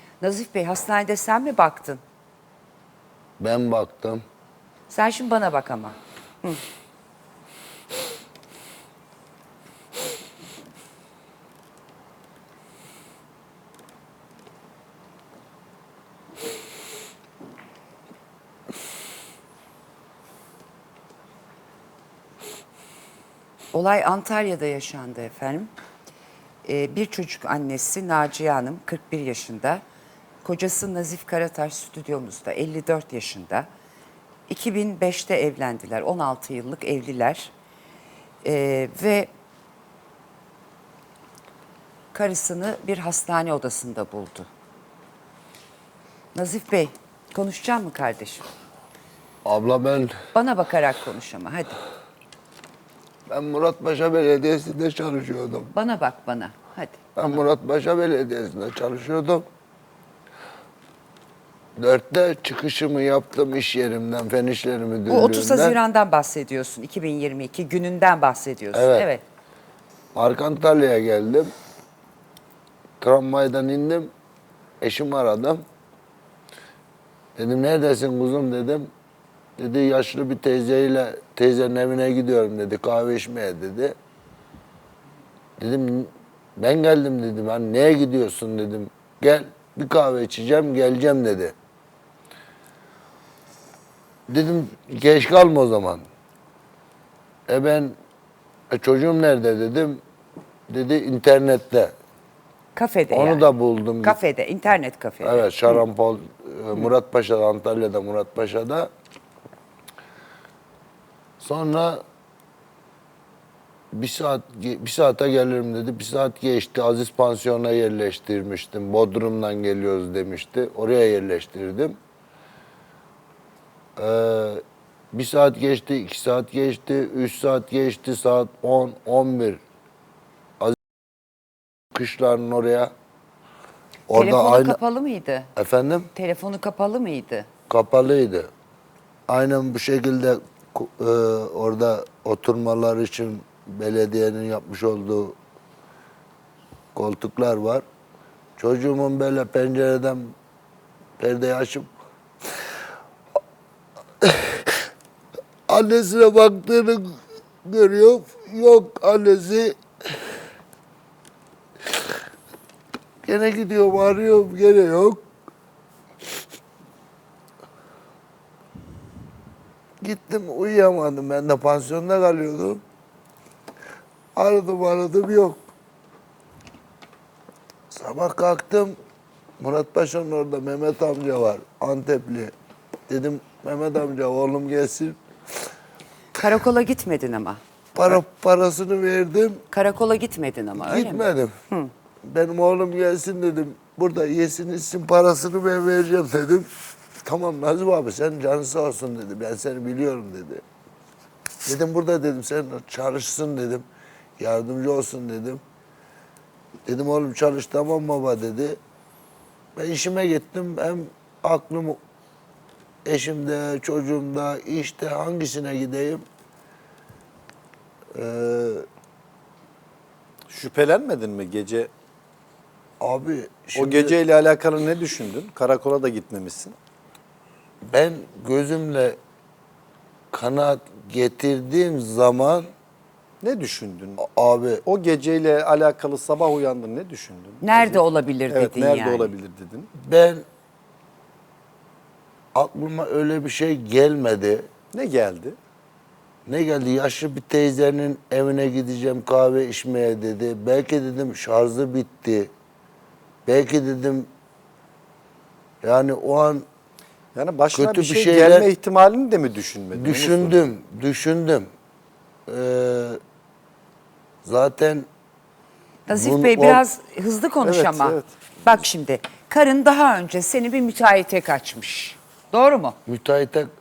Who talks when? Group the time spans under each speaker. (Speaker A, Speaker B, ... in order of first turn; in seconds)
Speaker A: 0.2-2.0, 4.9-6.6, 23.7-25.7, 26.6-29.8, 30.4-33.7, 34.5-37.5, 38.4-39.3, 42.1-44.5, 46.3-48.4, 50.3-51.8, 55.7-57.0, 65.1-69.2, 102.8-103.4, 104.0-105.8, 134.1-135.5, 136.1-137.5, 186.3-188.2, 189.7-191.9, 237.6-239.3, 266.1-272.9
Speaker B: 3.4-4.2, 49.4-50.1, 53.3-55.7, 57.1-59.4, 61.8-65.8, 68.7-69.1, 70.1-71.5, 73.0-74.1, 74.8-75.6, 77.4-78.9, 79.6-83.9, 85.6-91.5, 94.3-96.0, 97.5-97.9, 98.7-100.0, 100.7-101.9, 103.1-104.2, 105.2-108.9, 111.4-112.0, 113.9-122.0, 124.0-124.6, 125.1-129.6, 131.9-132.9, 134.1-134.8, 135.6-136.1, 137.7-138.5, 139.3-145.4, 146.9-147.8, 148.6-150.3, 151.2-151.9, 154.2-154.7, 155.7-159.8, 163.2-165.2, 170.0-172.8, 174.3-175.6, 177.9-178.9, 179.6-182.5, 183.1-185.2, 187.9-189.6, 190.8-191.5, 192.2-196.7, 197.2-200.6, 201.6-203.8, 204.4-205.6, 206.9-208.8, 209.8-212.0, 213.0-216.2, 218.1-218.8, 223.0-224.1, 227.9-229.2, 230.3-232.7, 234.2-234.8, 240.0-240.4, 242.5-244.7, 246.5-252.5, 253.4-254.3, 255.8-256.6, 257.7-258.7, 259.9-261.7, 262.5-263.2, 264.4-265.1, 266.1-266.8, 273.1-273.7
Speaker C: 220.5-221.9, 223.8-226.7, 233.4-234.2, 234.8-239.9, 244.9-245.6, 257.3-260.6, 267.6-268.3